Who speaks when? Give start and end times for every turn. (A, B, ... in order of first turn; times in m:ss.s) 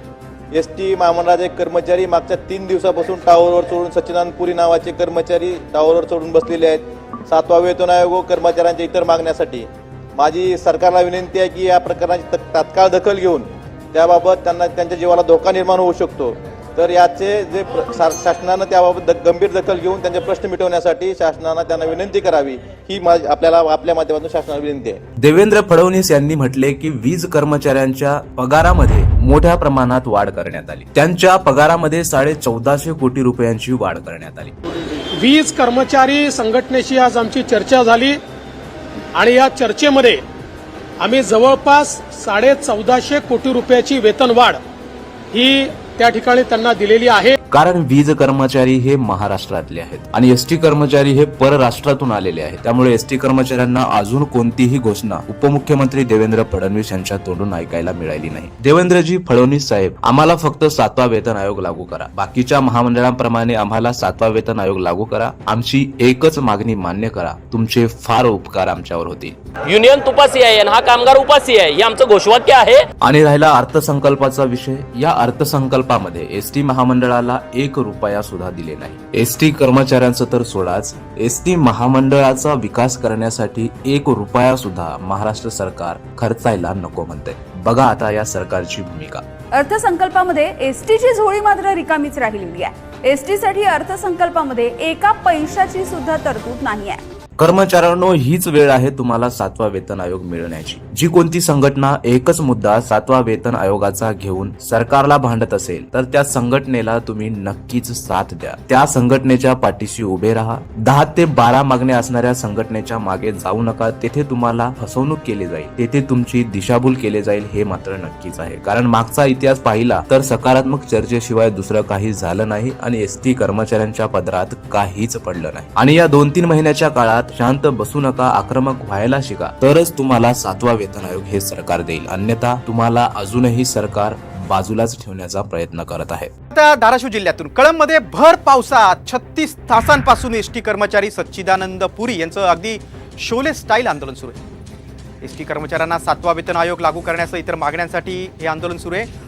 0:00.5-0:25.0 A
0:25.2-0:34.5 B
0:35.1-0:38.2 C
0:39.1-0:40.2 C
0:41.0-0:44.6 C
0:45.3-0:47.4 C
0:47.5-1:09.4 B
1:09.7-1:12.8 D
1:13.0-1:29.2 B
1:29.6-1:37.0 E
1:37.4-2:16.3 B
2:16.5-2:24.4 F
2:25.2-2:29.1 F